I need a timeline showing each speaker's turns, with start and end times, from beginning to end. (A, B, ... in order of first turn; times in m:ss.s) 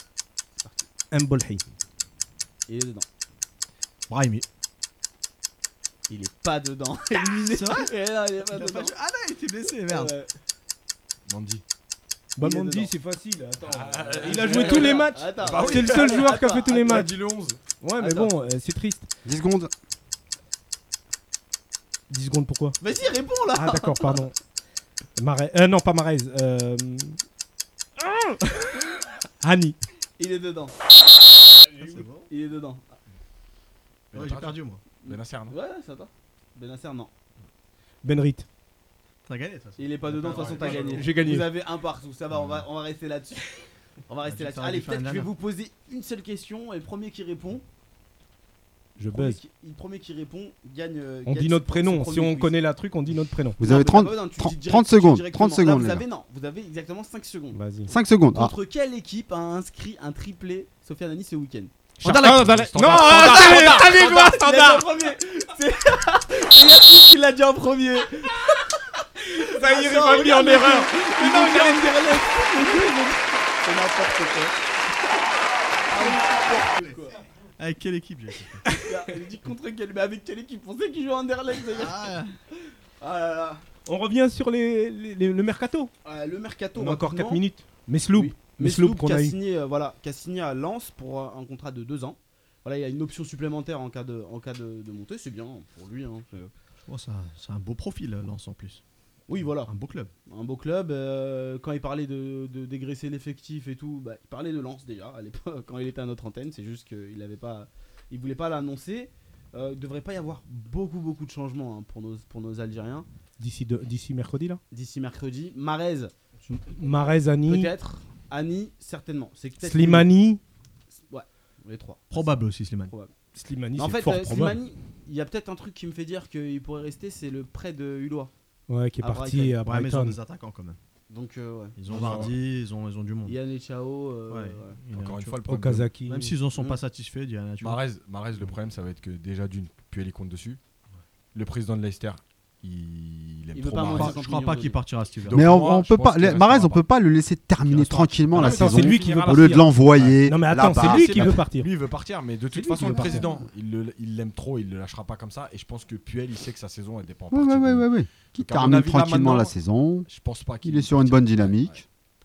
0:00.6-0:00.9 A
0:01.1-0:01.6 B
0:02.7-0:03.1 A
0:04.1-0:04.4 C
0:06.1-0:09.0 A
0:07.5-0:07.9 C
0:08.5-0:10.1 C
0:09.8-0:10.3 A
0:11.3-0:11.6 D
0:12.4-0:17.1 B
0:12.4-0:12.9 A
0:13.6-0:17.6 D
0:14.2-0:17.1 A
0:17.8-0:19.1 B
0:18.0-0:18.3 A
0:19.2-0:19.7 E
0:22.1-0:22.8 B
0:22.8-0:24.2 A
0:23.6-0:24.4 B
0:25.2-0:27.2 B
0:28.0-0:28.9 B
0:29.4-0:29.8 B
0:30.2-0:30.8 A
0:31.8-0:32.3 C
0:32.3-0:33.0 A
0:34.1-0:35.6 D
0:34.1-0:34.8 C
0:35.0-0:37.1 A
0:38.0-0:38.5 B
0:39.3-0:41.1 C
0:39.8-0:47.6 A
0:40.3-0:40.8 D
0:40.9-0:41.5 B
0:44.3-0:45.3 C
0:49.0-0:49.4 B
0:49.1-0:52.5 A
0:51.3-0:53.6 B
0:53.6-0:56.0 E
0:53.6-0:57.6 A
0:57.5-0:57.9 B
0:57.9-0:58.5 E
0:58.3-1:01.7 A
1:02.0-1:04.9 B
1:02.0-1:02.5 C
1:02.0-1:04.3 D
1:03.0-1:08.8 A
1:09.2-1:12.3 B
1:09.4-1:14.6 A
1:15.9-1:17.0 C
1:15.9-1:17.2 A
1:17.6-1:18.6 C
1:18.6-1:18.9 B
1:18.8-1:22.1 A
1:21.7-1:22.4 C
1:23.0-1:23.6 A
1:23.9-1:25.9 B
1:26.0-1:27.4 A
1:26.8-1:29.4 B
1:28.2-1:36.5 A
1:36.9-1:38.8 C
1:39.3-1:39.7 A
1:39.7-1:40.1 C
1:40.3-1:53.1 A
1:53.4-1:54.6 B
1:54.7-1:56.1 A
1:56.7-1:57.7 B
1:57.5-2:00.1 A
1:59.6-2:00.4 B
2:01.0-2:03.1 A
2:02.1-2:02.9 C
2:03.4-2:04.6 B
2:03.8-2:08.3 A
2:08.7-2:10.2 B
2:09.0-2:09.6 A
2:09.6-2:10.8 C
2:11.1-2:12.3 A
2:11.8-2:13.4 C
2:11.9-2:12.4 D
2:13.2-2:14.8 A
2:14.3-2:15.4 C
2:14.9-2:15.9 D
2:15.5-2:16.4 B
2:16.1-2:17.8 C
2:17.6-2:20.6 D
2:21.3-2:24.2 D
2:23.5-2:24.8 A
2:23.9-2:25.6 C
2:25.3-2:26.8 D
2:25.3-2:31.4 E
2:27.7-2:30.2 D
2:28.3-2:31.7 B
2:30.7-2:39.5 D
2:32.5-2:33.2 B
2:37.3-2:40.1 E
2:40.1-2:41.8 D
2:40.6-2:41.8 E